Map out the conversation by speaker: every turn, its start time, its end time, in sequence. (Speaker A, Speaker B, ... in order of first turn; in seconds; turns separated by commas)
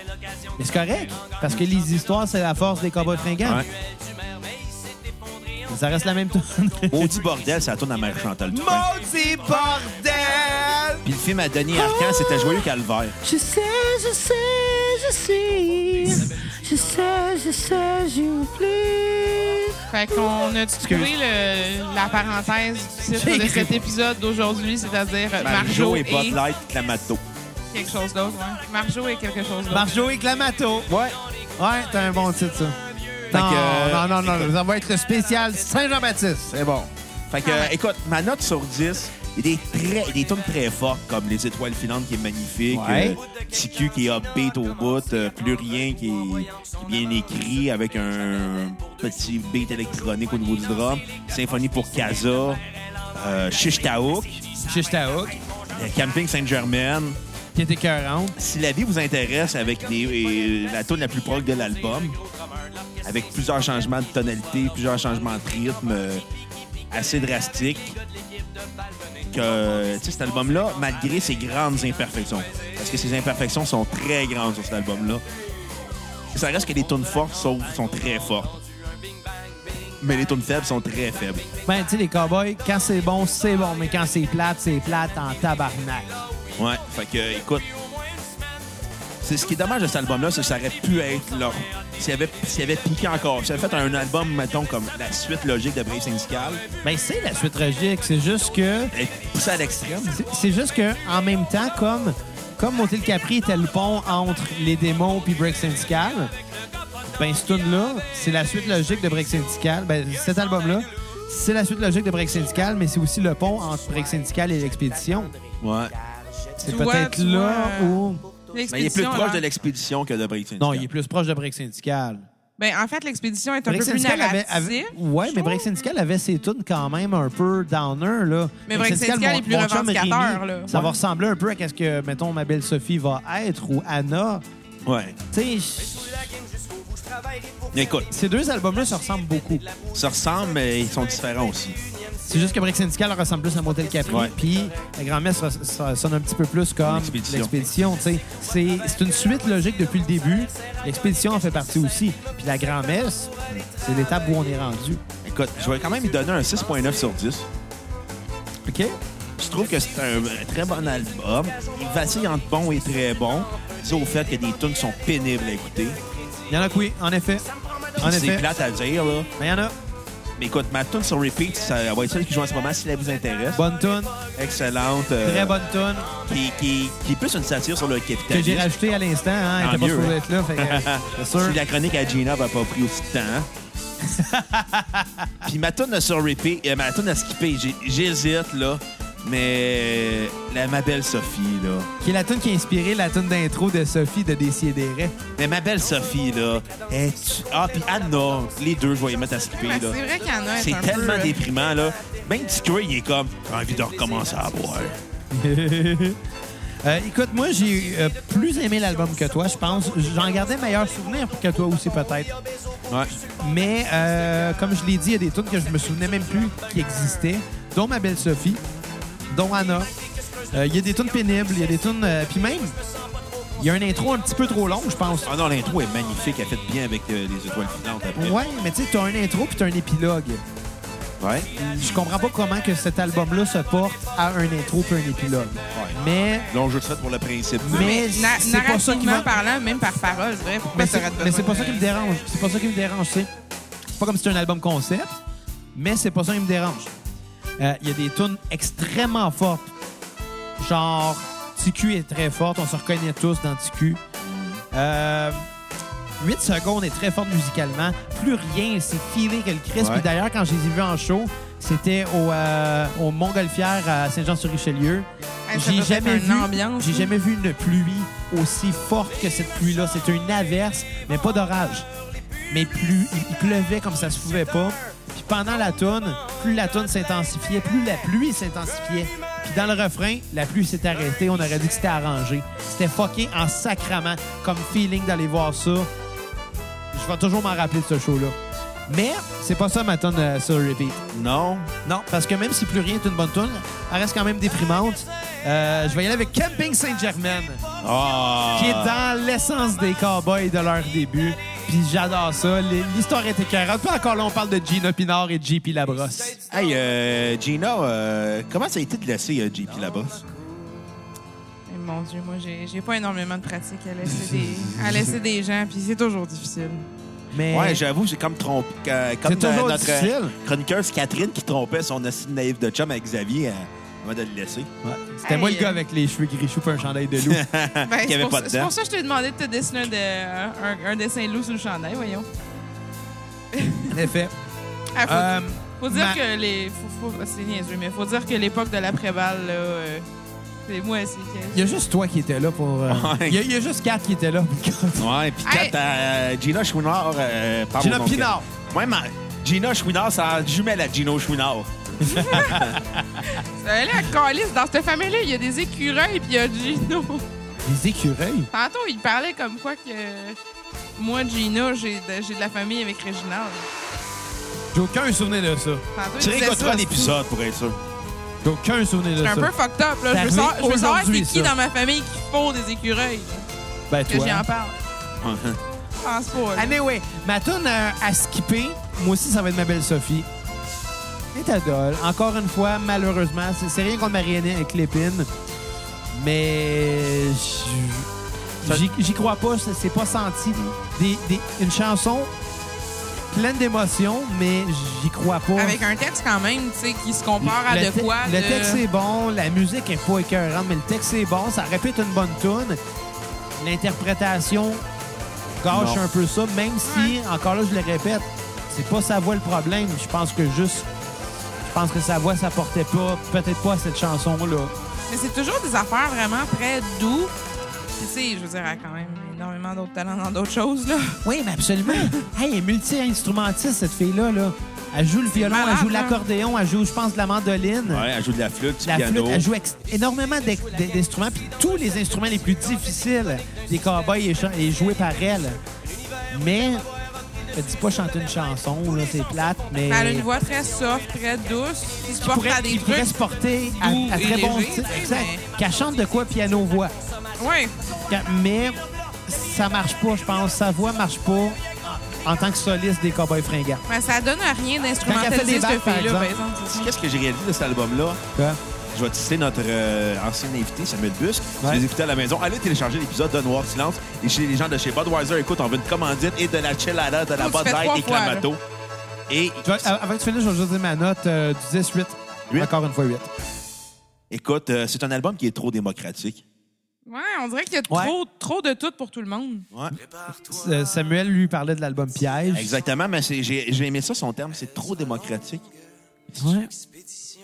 Speaker A: 0.6-3.6, Speaker B: 3.4-3.7, Speaker A: 5.7-7.1, Speaker B: 6.9-8.9, Speaker A: 8.5-11.1, Speaker B: 11.0-13.2, Speaker A: 11.7-12.7, Speaker A: 13.2-20.2, Speaker C: 19.9-26.4, Speaker A: 20.8-21.1, Speaker A: 23.2-23.8, Speaker B: 25.4-27.2, Speaker C: 27.7-29.9, Speaker A: 29.7-30.9, Speaker B: 30.9-31.2, Speaker A: 31.6-32.8, Speaker B: 33.3-34.5, Speaker A: 33.3-36.5, Speaker B: 36.5-52.6, Speaker C: 37.4-37.7, Speaker A: 42.7-43.2, Speaker B: 53.1-54.4, Speaker A: 54.6-55.4, Speaker B: 55.7-57.2, Speaker A: 57.5-58.4, Speaker B: 58.4-62.2, Speaker B: 63.0-66.2, Speaker B: 66.9-68.0, Speaker B: 69.3-75.2, Speaker B: 76.3-78.6, Speaker B: 80.0-81.5, Speaker A: 81.7-86.2, Speaker B: 86.6-87.7, Speaker B: 89.2-96.6, Speaker A: 96.8-98.9, Speaker B: 98.9-100.2, Speaker A: 100.1-106.3, Speaker A: 107.1-115.3, Speaker B: 115.6-115.9, Speaker A: 116.6-118.2, Speaker C: 116.6-119.4, Speaker B: 118.7-120.9, Speaker A: 120.6-122.3, Speaker C: 122.6-125.6, Speaker A: 123.7-134.4, Speaker C: 128.7-130.8, Speaker B: 134.8-135.2, Speaker A: 135.3-136.3, Speaker B: 137.7-138.1, Speaker A: 138.1-139.7, Speaker B: 139.9-141.8, Speaker A: 142.2-155.0, Speaker B: 144.1-144.3, Speaker B: 146.8-147.5, Speaker B: 155.2-157.5, Speaker A: 158.7-159.0, Speaker B: 159.4-166.0, Speaker A: 166.5-167.5, Speaker B: 168.0-169.3, Speaker A: 168.0-168.5, Speaker A: 169.4-169.7, Speaker B: 170.4-173.6, Speaker A: 173.5-174.2, Speaker B: 174.3-175.5, Speaker A: 175.2-176.1, Speaker B: 176.2-178.7, Speaker A: 178.3-181.6, Speaker B: 179.6-183.5, Speaker A: 184.1-185.5, Speaker B: 185.4-191.9, Speaker A: 192.0-195.2, Speaker B: 195.4-200.0, Speaker C: 199.6-201.4, Speaker B: 200.6-204.9, Speaker A: 205.3-206.2, Speaker A: 206.8-212.3, Speaker A: 213.4-218.6, Speaker A: 219.3-219.9, Speaker A: 220.5-222.8, Speaker A: 223.6-225.3, Speaker B: 225.2-228.4, Speaker A: 228.2-230.4, Speaker B: 231.2-232.0, Speaker A: 231.6-236.5, Speaker B: 235.7-236.0, Speaker B: 236.5-238.0, Speaker A: 237.6-239.3, Speaker C: 237.7-241.9, Speaker A: 240.7-243.3, Speaker A: 244.0-245.2, Speaker A: 245.8-246.9, Speaker A: 247.6-249.7, Speaker A: 250.6-254.0, Speaker B: 254.2-254.6, Speaker A: 254.7-255.5, Speaker A: 256.2-271.9, Speaker B: 259.8-260.1, Speaker C: 265.5-267.1, Speaker A: 272.5-285.9, Speaker A: 286.9-288.4, Speaker A: 288.9-291.1, Speaker B: 291.1-291.7, Speaker A: 291.9-297.6, Speaker B: 297.8-298.9, Speaker A: 298.5-306.4, Speaker B: 306.5-310.2, Speaker C: 311.7-316.9, Speaker A: 314.3-315.1, Speaker A: 317.3-317.8, Speaker B: 317.5-324.7, Speaker A: 319.2-320.3, Speaker A: 324.8-327.4, Speaker C: 325.2-325.8, Speaker B: 327.2-328.7, Speaker C: 327.8-332.3, Speaker C: 333.5-334.0, Speaker A: 333.9-334.3, Speaker C: 334.9-340.1, Speaker A: 335.1-336.2, Speaker C: 340.7-341.7, Speaker A: 341.5-345.1, Speaker B: 342.9-343.4, Speaker B: 345.0-352.8, Speaker C: 345.4-345.7, Speaker A: 347.8-348.5, Speaker C: 352.0-352.6, Speaker A: 352.1-353.0, Speaker C: 353.2-357.2, Speaker A: 357.6-358.5, Speaker C: 358.5-360.4, Speaker C: 361.0-363.7, Speaker A: 364.7-365.8, Speaker C: 365.9-367.1, Speaker B: 366.2-367.8, Speaker A: 368.4-369.5, Speaker C: 369.2-373.5, Speaker A: 370.1-371.5, Speaker A: 373.9-374.4, Speaker C: 374.1-374.8, Speaker B: 375.2-375.6, Speaker C: 376.0-376.8, Speaker A: 376.6-380.3, Speaker A: 381.3-385.3, Speaker A: 386.1-388.1, Speaker A: 388.6-392.3, Speaker B: 388.6-388.9, Speaker A: 393.3-395.8, Speaker C: 395.6-398.8, Speaker A: 397.4-402.8, Speaker A: 403.6-404.8, Speaker A: 405.6-410.9, Speaker B: 405.7-406.0, Speaker C: 406.9-407.1, Speaker A: 411.6-414.7, Speaker C: 415.1-417.3, Speaker C: 418.0-421.2, Speaker A: 421.2-428.1, Speaker C: 421.9-422.1, Speaker C: 425.3-426.2, Speaker B: 427.9-429.5, Speaker A: 428.9-435.6, Speaker A: 436.3-436.8, Speaker A: 437.5-440.3, Speaker C: 439.9-443.1, Speaker A: 442.2-446.9, Speaker C: 443.8-445.4, Speaker C: 447.4-447.8, Speaker A: 448.1-451.6, Speaker A: 452.2-453.8, Speaker C: 453.9-456.9, Speaker A: 455.0-456.3, Speaker B: 456.6-458.2, Speaker B: 458.9-468.6, Speaker A: 461.6-461.9, Speaker C: 467.4-468.5, Speaker B: 469.3-469.9, Speaker A: 469.6-473.3, Speaker B: 474.3-476.4, Speaker C: 477.1-479.6, Speaker A: 477.9-478.1, Speaker A: 480.4-482.8, Speaker B: 482.5-485.6, Speaker B: 486.3-486.6, Speaker A: 486.4-486.7